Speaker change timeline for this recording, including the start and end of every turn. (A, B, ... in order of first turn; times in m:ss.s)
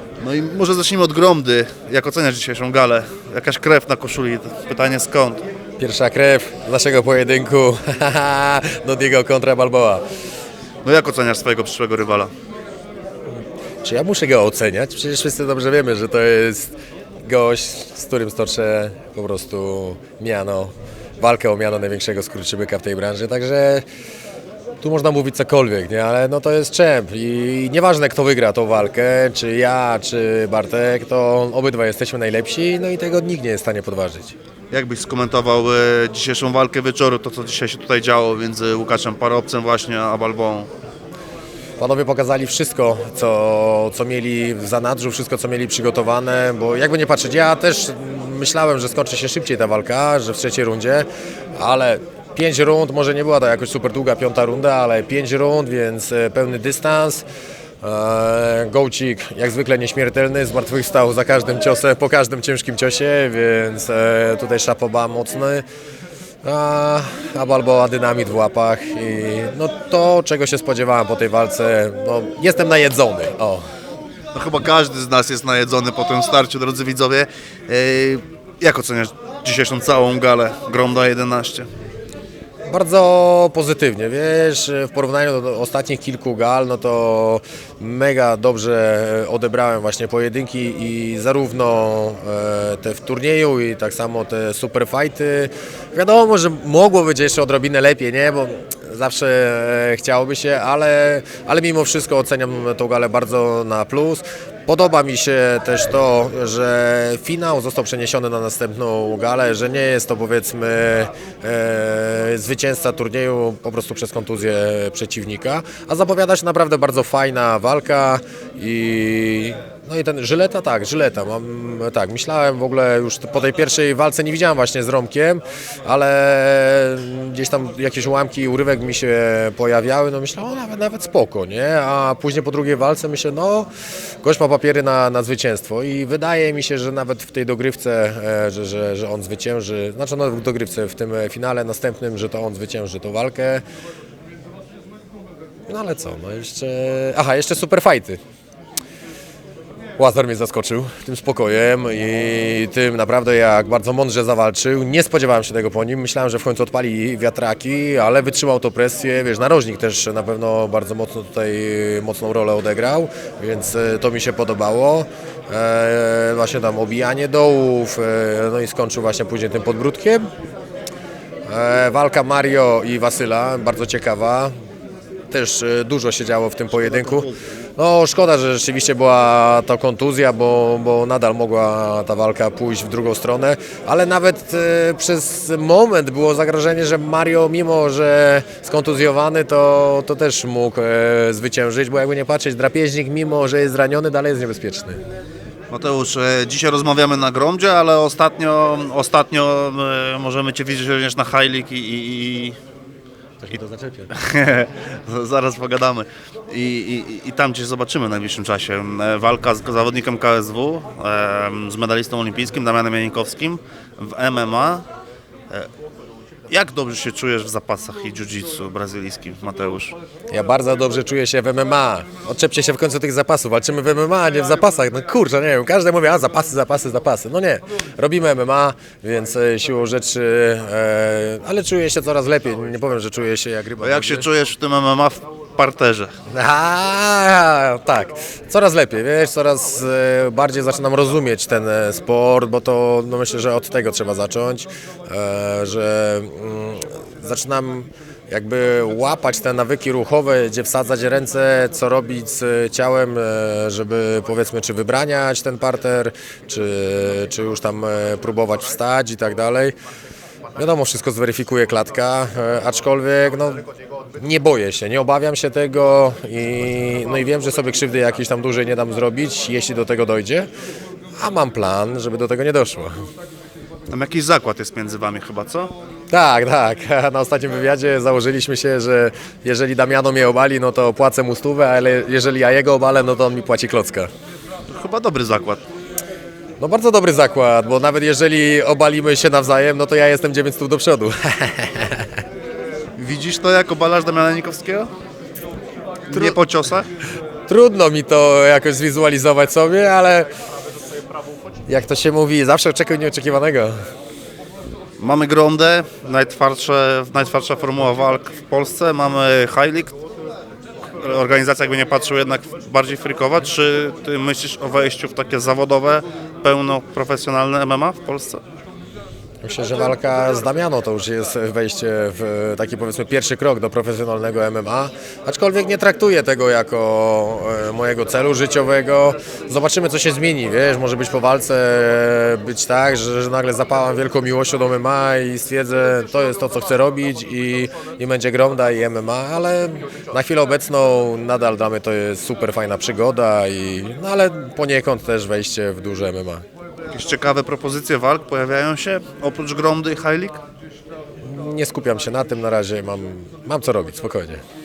0:00.2-0:05.4 A
0:05.8-0:10.0 B
0:10.8-0:12.3 A
0:13.8-0:23.8 B
0:24.8-0:34.3 B
0:34.7-0:40.7 A
0:41.8-0:57.2 B
0:57.8-1:05.7 B
1:06.4-1:13.7 B
1:14.3-1:21.7 A
1:22.7-2:13.7 B
2:14.2-2:23.6 B
2:25.7-2:28.2 B
2:30.0-2:50.3 B
2:51.5-2:54.5 B
2:55.3-3:15.0 B
3:15.7-3:22.6 A
3:23.4-3:24.1 B
3:24.1-3:34.8 A
3:36.5-3:39.9 A
3:40.3-3:54.3 B
3:53.8-3:56.1 A
3:56.3-4:19.8 B
4:20.6-4:30.5 B
4:31.2-4:33.0 B
4:33.9-4:35.7 A
4:36.1-4:44.1 B
4:44.7-4:45.6 A
4:46.6-4:52.2 B
4:53.0-4:54.9 A
4:56.1-4:56.9 A
4:57.5-5:00.3 B
5:01.7-5:03.8 B
5:05.0-5:10.0 A
5:11.0-5:18.4 A
5:19.4-5:46.4 B
5:46.9-5:50.4 A
5:51.2-5:54.4 B